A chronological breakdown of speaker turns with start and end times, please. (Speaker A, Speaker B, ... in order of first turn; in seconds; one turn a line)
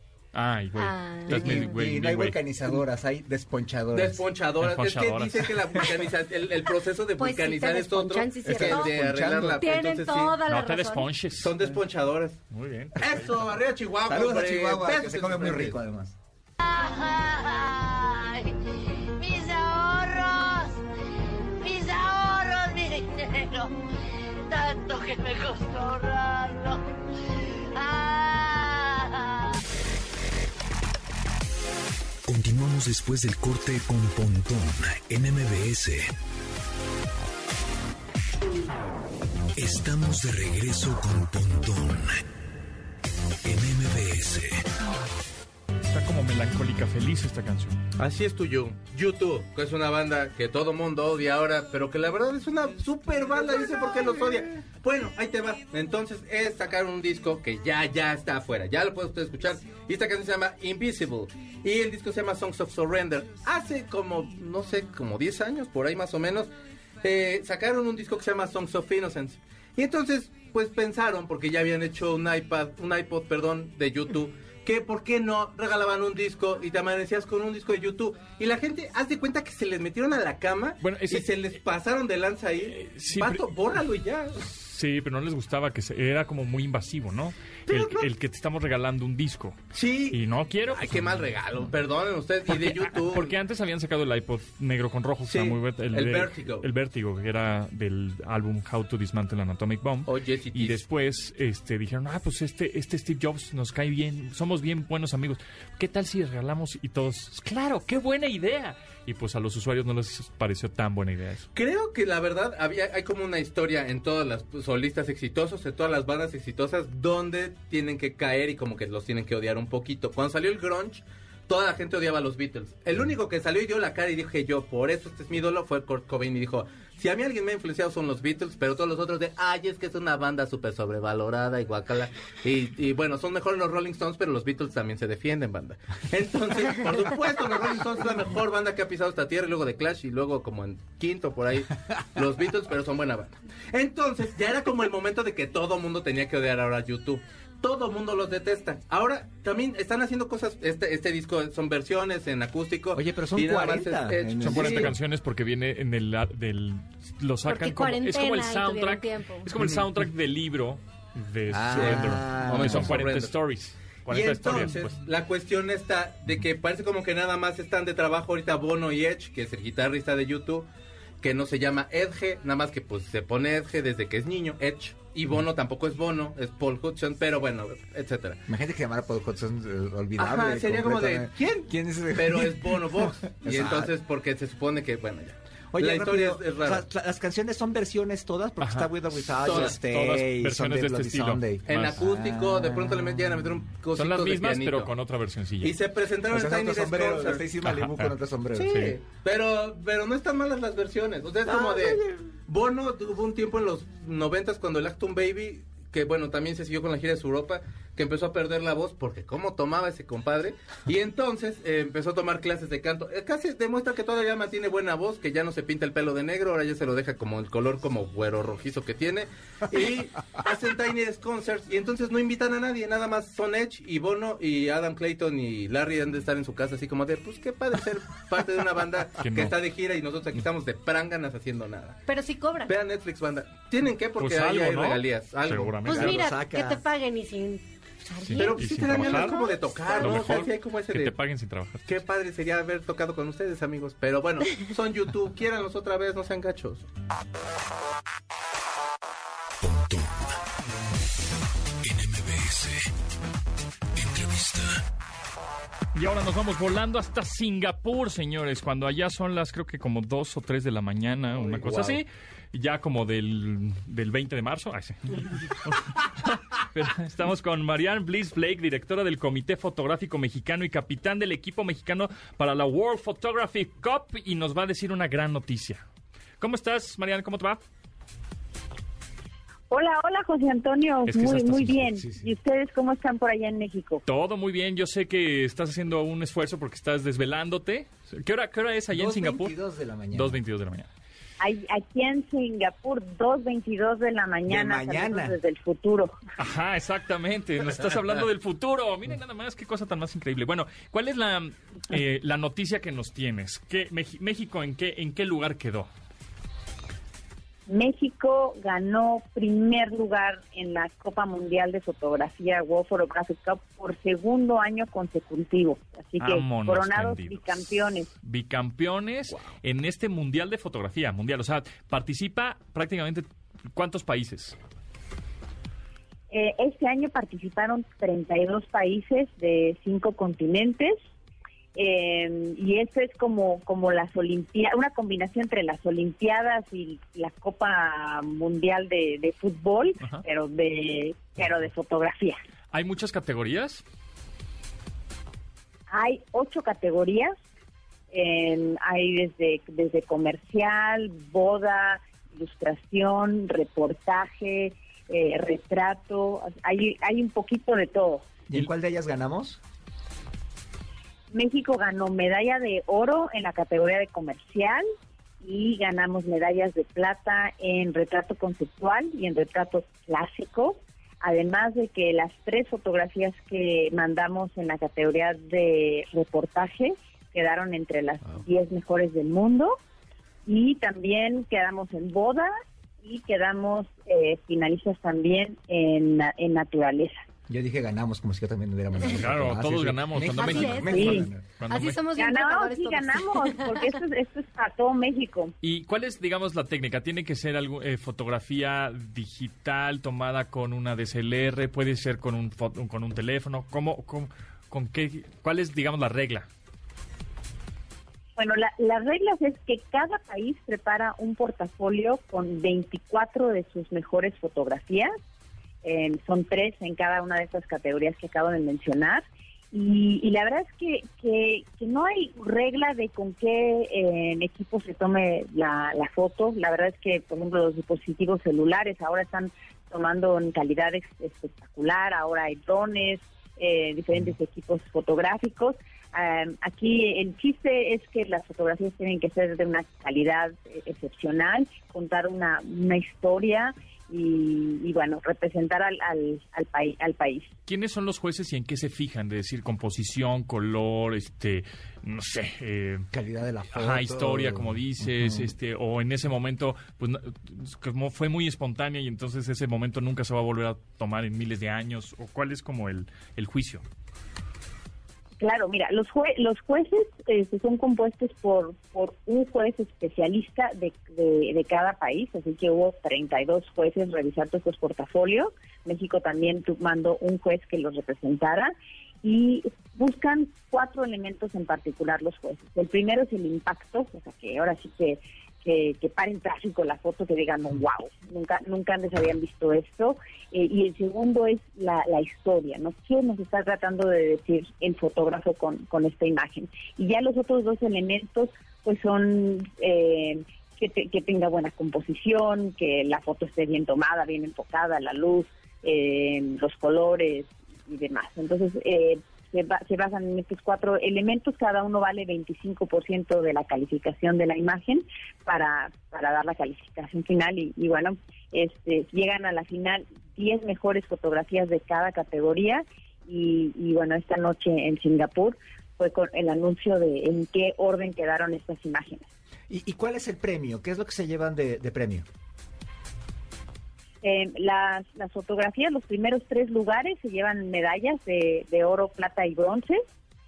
Speaker A: 0.3-2.4
Speaker B: 0.8-1.8
Speaker C: 1.3-4.2
Speaker D: 3.9-10.4
Speaker A: 4.6-5.5
Speaker B: 7.2-9.0
Speaker C: 8.4-9.6
Speaker B: 9.6-11.1
Speaker A: 10.4-11.6
Speaker D: 11.4-12.4
Speaker A: 12.5-13.4
Speaker D: 13.0-15.8
Speaker C: 14.1-16.1
Speaker E: 16.6-18.5
Speaker E: 19.2-20.8
Speaker E: 21.6-23.7
Speaker E: 24.5-26.8
Speaker E: 27.7-29.6
Speaker F: 32.3-36.1
Speaker F: 39.6-42.2
Speaker F: 43.4-44.6
Speaker A: 45.8-47.8
Speaker D: 48.0-66.5
Speaker D: 67.0-84.4
Speaker A: 80.8-81.3
Speaker A: 82.7-83.5
Speaker A: 84.4-89.6
Speaker D: 87.7-88.1
Speaker D: 89.7-93.3
Speaker A: 90.1-91.2
Speaker A: 92.5-111.5
Speaker D: 95.2-96.7
Speaker D: 100.0-100.8
Speaker D: 111.5-154.9
Speaker C: 152.9-154.9
Speaker A: 154.4-165.0
Speaker B: 157.4-159.5
Speaker C: 159.6-159.8
Speaker C: 161.5-163.1
Speaker D: 161.7-163.3
Speaker D: 164.1-170.7
Speaker D: 171.2-178.4
Speaker C: 178.5-183.9
Speaker D: 180.2-186.8
Speaker C: 185.7-193.3
Speaker A: 188.6-192.1
Speaker D: 189.4-189.8
Speaker D: 191.7-194.9
Speaker A: 193.9-195.7
Speaker D: 195.6-197.4
Speaker C: 196.3-198.8
Speaker A: 197.6-198.9
Speaker D: 198.6-232.0
Speaker C: 201.5-201.8
Speaker A: 229.2-229.6
Speaker B: 232.1-232.8
Speaker D: 232.7-236.1
Speaker A: 234.2-236.2
Speaker B: 235.8-240.4
Speaker C: 235.9-236.8
Speaker A: 238.2-242.0
Speaker D: 238.4-241.2
Speaker D: 241.9-246.8
Speaker F: 249.6-250.3
Speaker F: 251.8-252.9
Speaker F: 253.9-254.8
Speaker A: 255.9-275.8
Speaker C: 261.3-262.0
Speaker A: 276.4-277.6
Speaker G: 279.7-284.0
Speaker A: 281.1-282.0
Speaker A: 284.1-289.5
Speaker C: 288.9-290.4
Speaker A: 290.1-290.9
Speaker G: 291.4-296.1
Speaker C: 294.5-295.4
Speaker A: 296.4-305.9
Speaker G: 307.7-318.1
Speaker A: 316.2-324.6
Speaker G: 326.3-331.0
Speaker G: 331.8-342.4
Speaker A: 342.7-343.8
Speaker G: 345.9-347.3
Speaker G: 348.1-358.2
Speaker C: 358.5-359.6
Speaker G: 361.3-364.8
Speaker G: 365.4-379.8
Speaker G: 380.4-387.2
Speaker C: 387.5-391.4
Speaker A: 389.1-392.0
Speaker B: 390.2-393.9
Speaker G: 390.9-391.3
Speaker G: 392.2-395.5
Speaker A: 395.6-406.5
Speaker G: 408.4-415.1
Speaker G: 415.8-447.5
Speaker A: 447.7-453.1
Speaker C: 453.1-455.5
Speaker A: 453.7-463.8
Speaker G: 465.4-529.3
Speaker C: 529.7-532.2
Speaker G: 534.2-540.0